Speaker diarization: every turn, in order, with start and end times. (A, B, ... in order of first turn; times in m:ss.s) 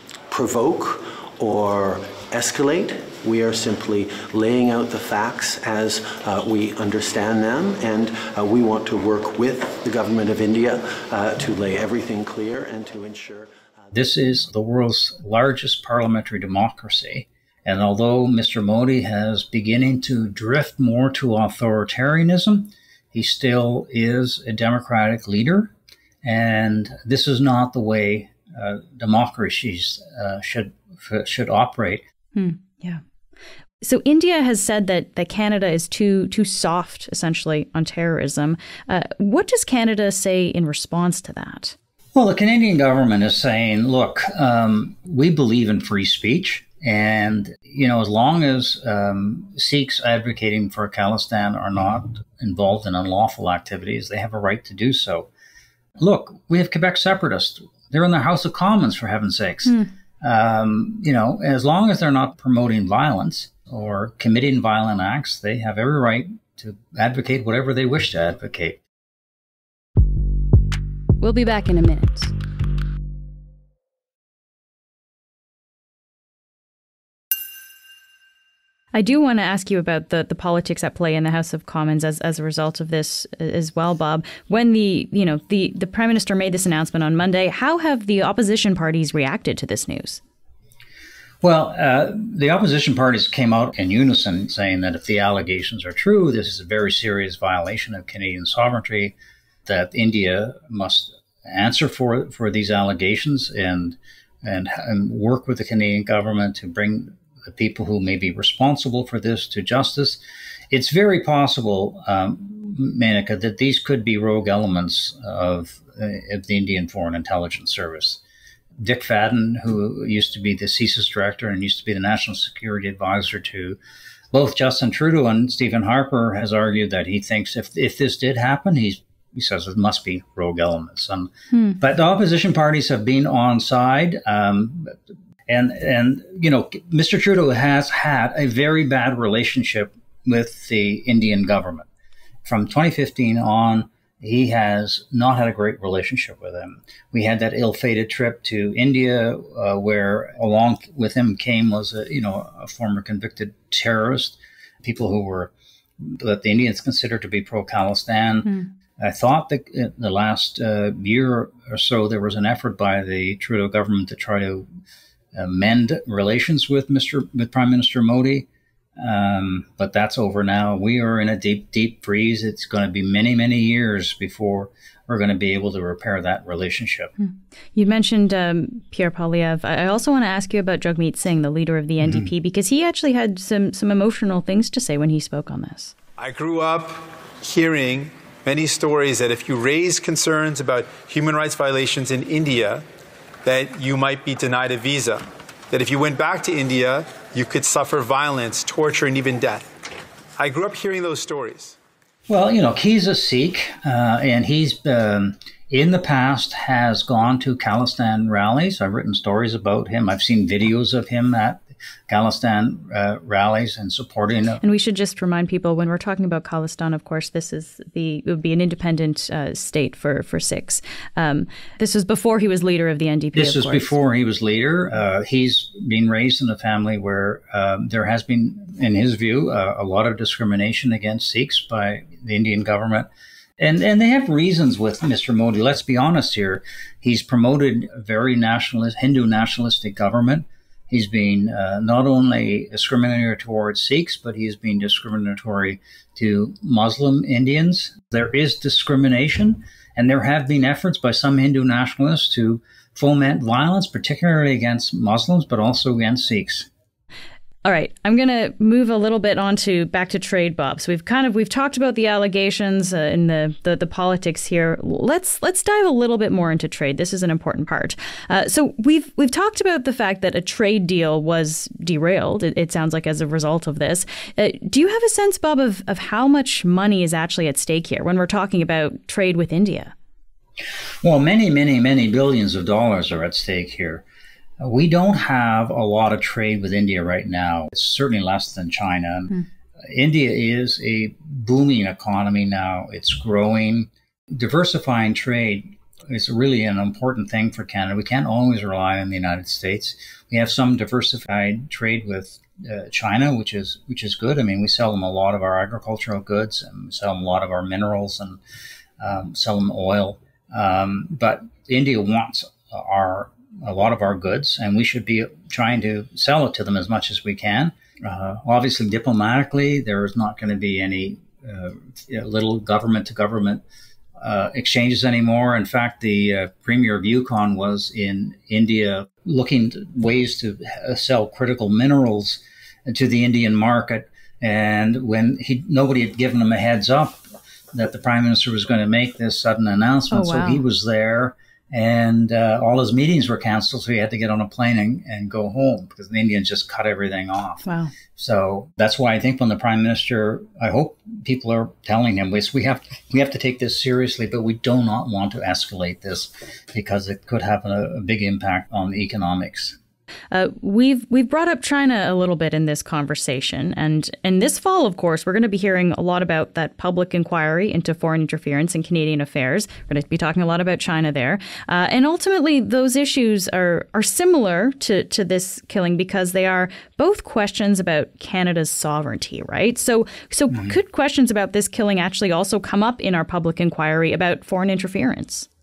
0:00.3-0:13.5 A
0:13.9-0:32.0 B
0:32.3-0:33.0 C
0:33.8-0:41.8 C
0:42.1-0:55.3 B
0:56.0-1:08.8 B
1:11.2-1:12.3 C
1:18.9-1:30.2 C
1:31.4-1:58.2 B
1:58.8-2:03.8 B
2:04.3-2:21.9 B
2:11.5-2:11.8 C
2:22.4-2:44.6 B
2:45.3-2:57.1 B
2:57.2-3:05.9 C
3:02.0-3:02.3 B
3:06.2-3:12.8 D
3:13.4-3:19.6 D
3:20.4-3:21.8 D
3:22.3-3:34.6 B
3:34.6-3:43.9 C
3:43.4-3:53.1 B
3:53.6-4:16.7 B
4:17.6-4:39.9 C
4:41.0-4:44.0 B
4:44.6-5:08.4 B
5:09.0-5:23.6 B
5:24.2-5:37.2 B
5:37.7-5:59.8 B
5:40.1-5:40.6 C
5:47.6-5:47.9 C
6:00.3-6:25.5 C